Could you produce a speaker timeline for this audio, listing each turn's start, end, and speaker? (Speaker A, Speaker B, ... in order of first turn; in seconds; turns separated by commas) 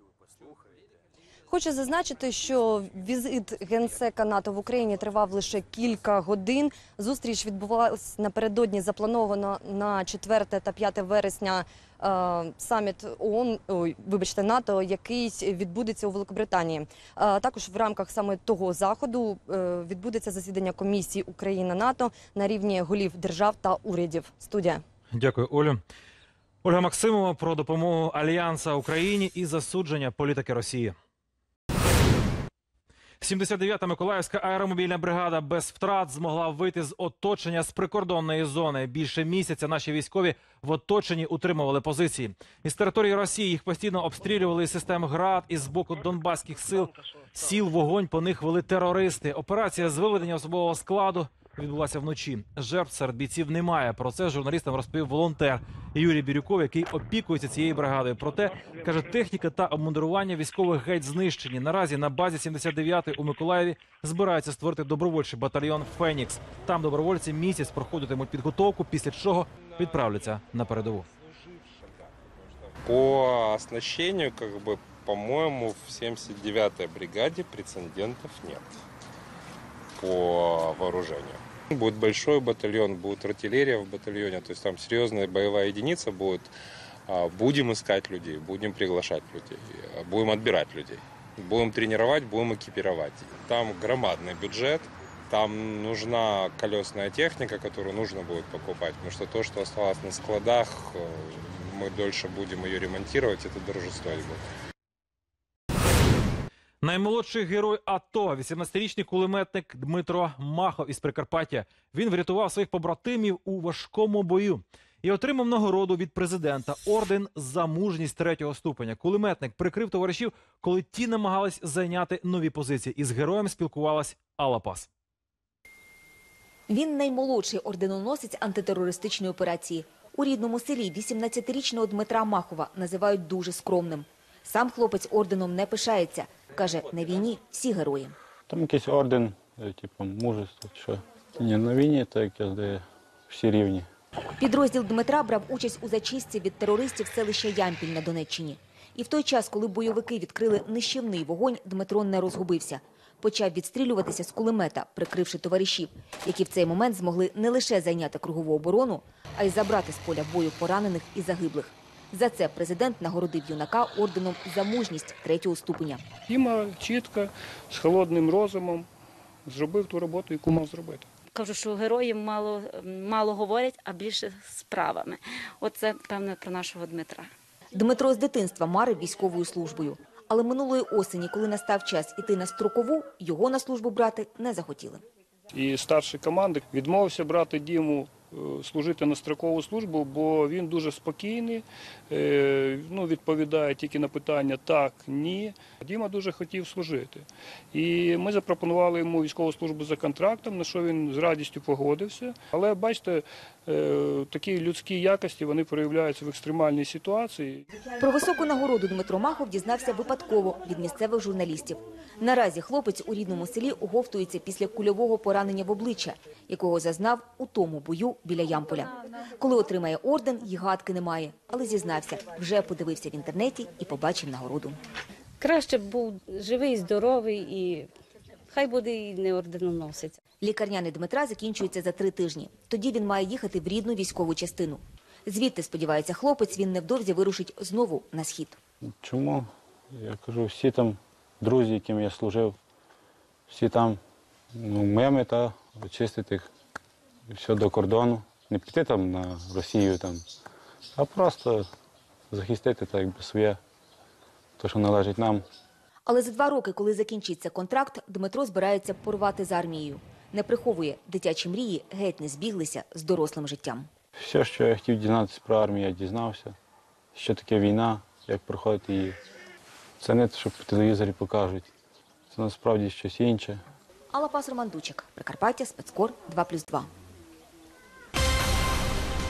Speaker A: 1.5-24.8, Speaker B: 25.1-25.8, Speaker B: 26.6-30.9, Speaker B: 33.2-71.0, Speaker C: 72.8-78.7, Speaker C: 80.0-86.5, Speaker C: 87.1-104.4, Speaker B: 106.8-124.9, Speaker D: 126.7-138.1, Speaker E: 138.5-143.9, Speaker D: 144.4-166.0, Speaker F: 166.3-168.9, Speaker F: 169.4-171.1, Speaker G: 171.3-177.3, Speaker D: 177.7-185.0, Speaker F: 185.5-207.6, Speaker D: 208.0-224.8, Speaker G: 225.4-227.9, Speaker G: 228.5-230.2, Speaker D: 230.4-238.6, Speaker E: 239.0-242.6, Speaker E: 243.5-244.0, Speaker E: 244.6-246.5, Speaker E: 247.3-250.2, Speaker E: 250.9-251.7, Speaker E: 252.3-253.6, Speaker E: 254.6-255.4, Speaker D: 256.1-263.9, Speaker E: 264.2-266.5, Speaker E: 267.1-269.2, Speaker E: 270.0-271.7, Speaker E: 272.3-273.6, Speaker D: 274.1-276.9